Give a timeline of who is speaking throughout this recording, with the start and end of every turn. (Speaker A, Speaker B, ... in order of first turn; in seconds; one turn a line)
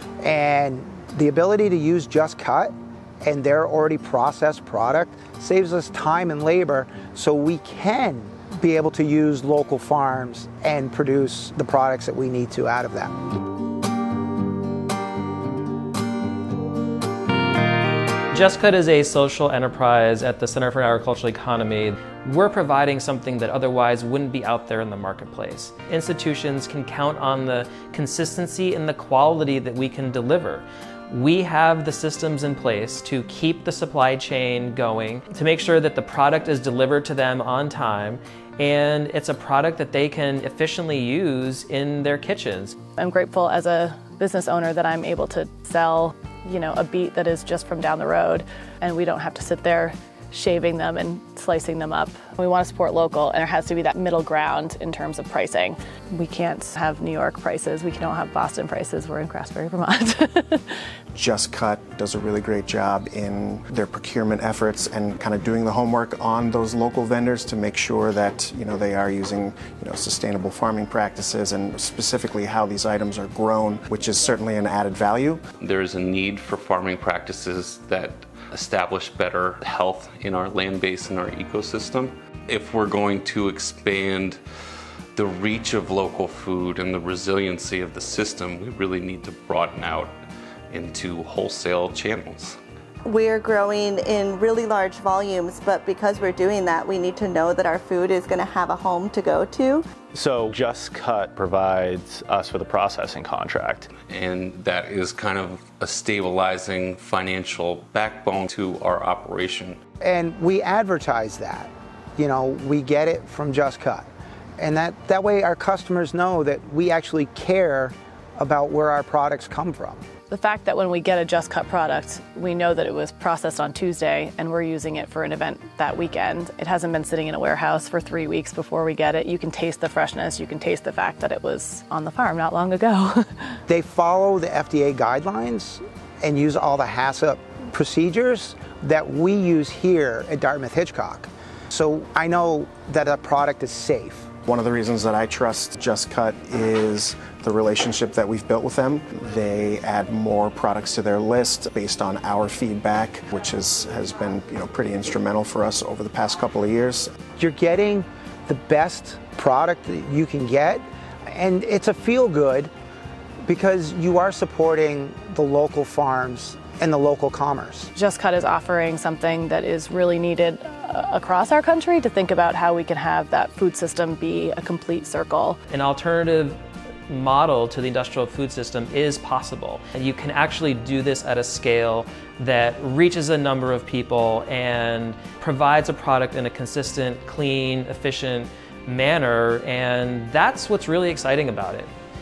Speaker A: 0.2-13.1
Speaker B: 18.3-42.8
Speaker C: 43.0-60.7
Speaker D: 61.1-75.4
Speaker E: 75.6-84.4
Speaker E: 85.2-90.1
Speaker E: 90.7-92.6
Speaker F: 93.0-99.9
Speaker G: 100.1-103.9
Speaker E: 104.1-109.8
Speaker A: 110.0-114.1
Speaker A: 114.6-120.0
Speaker C: 120.3-133.5
Speaker A: 133.7-144.3
Speaker D: 144.4-157.1
Speaker A: 157.4-162.7
Speaker A: 163.4-167.9
Speaker C: 167.9-175.6
Speaker B: 175.7-191.9